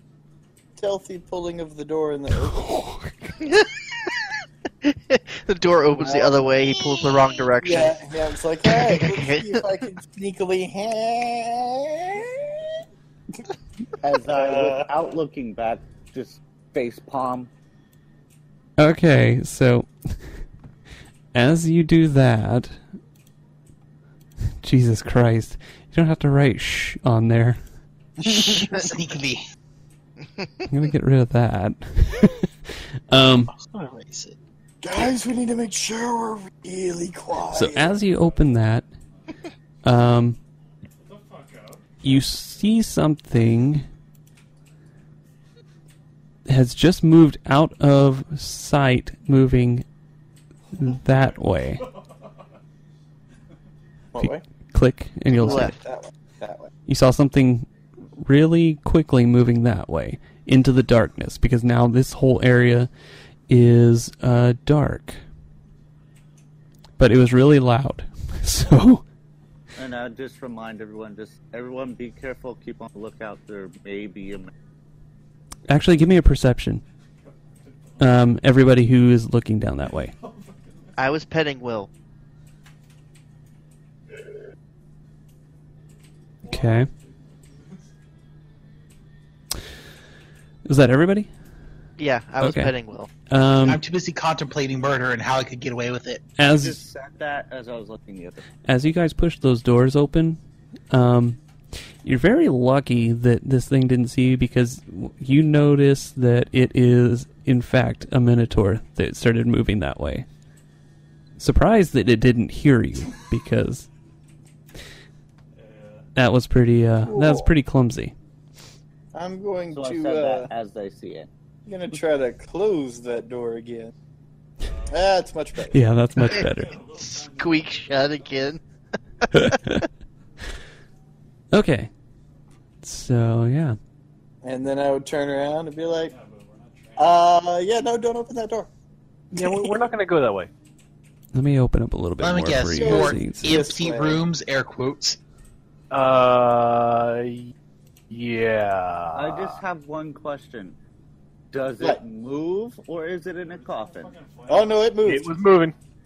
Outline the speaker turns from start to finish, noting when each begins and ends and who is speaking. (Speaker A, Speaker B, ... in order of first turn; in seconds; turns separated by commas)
Speaker A: 0.8-2.7, Speaker B: 2.5-3.3, Speaker C: 3.4-4.1, Speaker C: 4.8-8.0, Speaker A: 6.0-12.7, Speaker C: 8.7-9.6, Speaker D: 14.0-17.5, Speaker A: 14.3-14.9, Speaker B: 18.8-19.9, Speaker B: 21.3-22.8, Speaker B: 24.6-27.6, Speaker E: 28.2-29.4, Speaker B: 30.7-32.5, Speaker B: 33.1-33.5, Speaker E: 33.5-34.4, Speaker A: 34.8-38.0, Speaker B: 37.5-38.9, Speaker F: 37.9-39.4, Speaker B: 39.8-40.4, Speaker F: 41.0-42.6, Speaker B: 42.0-43.8, Speaker B: 46.5-49.8, Speaker B: 50.7-51.8, Speaker F: 50.8-52.5, Speaker A: 54.1-54.4, Speaker B: 54.2-55.7, Speaker A: 55.3-56.7, Speaker C: 55.4-55.8, Speaker B: 56.9-62.9, Speaker B: 63.5-65.2, Speaker B: 67.0-69.0, Speaker D: 69.8-74.5, Speaker B: 75.7-76.8, Speaker F: 77.2-78.3, Speaker B: 78.0-80.1, Speaker F: 79.9-81.0, Speaker C: 81.0-81.9, Speaker F: 86.4-87.9, Speaker B: 86.5-86.9, Speaker B: 90.7-91.3, Speaker C: 92.0-93.1, Speaker B: 92.4-92.7, Speaker B: 93.3-93.8, Speaker E: 93.6-96.3, Speaker B: 96.4-96.8, Speaker D: 96.4-98.5, Speaker B: 98.6-100.4, Speaker B: 100.9-101.4, Speaker B: 102.0-110.2, Speaker B: 111.4-113.8, Speaker F: 115.5-116.1, Speaker B: 116.2-118.1, Speaker A: 117.0-117.5, Speaker A: 119.1-120.5, Speaker D: 119.7-121.3, Speaker A: 121.7-123.9, Speaker F: 124.6-125.1, Speaker A: 124.9-125.8, Speaker B: 125.7-126.8, Speaker F: 126.3-128.6, Speaker C: 126.3-128.6, Speaker B: 129.3-129.8, Speaker B: 131.5-131.9, Speaker B: 132.8-133.8, Speaker A: 134.4-136.1, Speaker F: 136.0-137.2, Speaker A: 136.9-138.7, Speaker G: 139.3-140.5, Speaker B: 141.3-143.5, Speaker E: 142.2-145.2, Speaker A: 142.8-144.2, Speaker G: 145.9-147.5, Speaker G: 148.1-149.6, Speaker D: 149.1-150.8, Speaker D: 151.5-154.1, Speaker F: 153.4-155.0, Speaker A: 154.5-155.3, Speaker G: 155.0-155.7